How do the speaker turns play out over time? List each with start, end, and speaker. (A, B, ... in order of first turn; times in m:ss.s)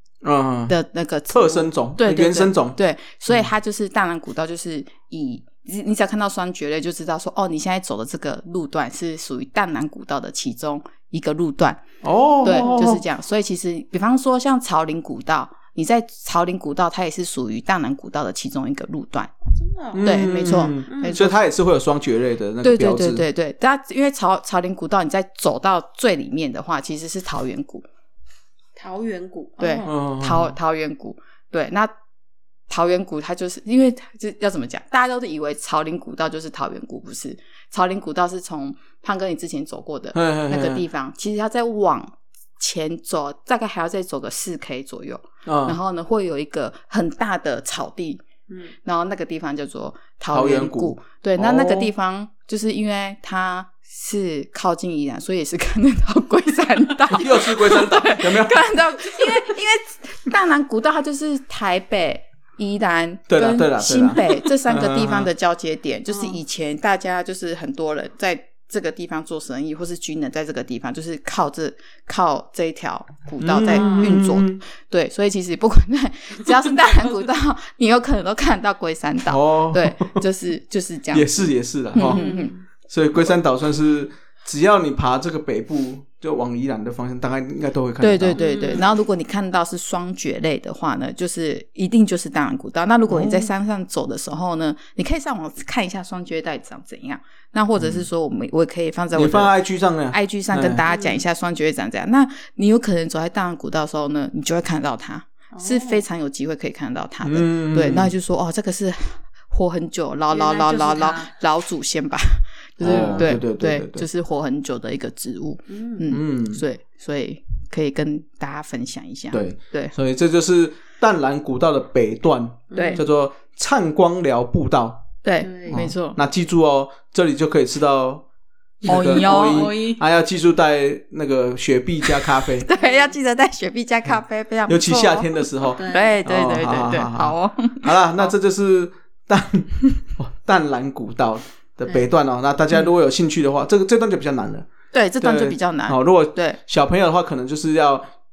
0:00.2-0:00.8 A
0:00.7-0:11.8 B
0:01.3-0:02.8 A
0:12.0-0:13.0 A
0:12.4-0:19.3 B
0:12.5-0:12.9 C
0:19.5-0:21.2 C
0:19.9-0:23.2 A
0:20.0-0:21.4 B
0:22.6-0:27.9 B
0:28.8-0:29.9 C
0:29.6-0:31.9 B
0:29.8-0:30.6 A
0:32.7-0:48.2 B
0:40.1-0:40.8 A
0:45.5-0:45.8 A
0:48.8-1:22.5 B
0:50.3-0:51.9 A
0:57.1-0:58.7 A
1:03.3-1:05.3 A
1:13.4-1:14.6 A
1:13.7-1:14.2 C
1:19.3-1:20.2 A
1:21.1-1:22.3 A
1:22.0-1:22.6 C
1:22.9-1:28.4 A
1:28.0-1:39.5 B
1:28.4-1:28.9 C
1:33.1-1:33.5 A
1:37.8-1:38.1 A
1:39.2-1:40.8 A
1:40.1-1:59.9 B
1:40.9-1:41.2 C
1:45.5-1:46.0 C
1:47.2-1:48.1 A
1:50.3-1:51.3 C
1:52.8-1:54.1 A
1:52.8-1:53.3 C
1:55.7-1:56.0 C
1:56.1-1:56.6 A
1:59.3-2:05.1 A
2:02.7-2:03.0 C
2:02.7-2:03.0 B
2:05.2-2:06.2 B
2:05.4-2:05.8 C
2:05.7-2:08.2 A
2:08.8-2:10.0 C
2:08.8-2:12.7 A
2:08.9-2:09.8 B
2:12.1-2:18.3 B
2:12.8-2:13.1 C
2:14.7-2:24.7 A
2:15.7-2:16.2 C
2:24.9-2:26.6 B
2:25.2-2:28.1 A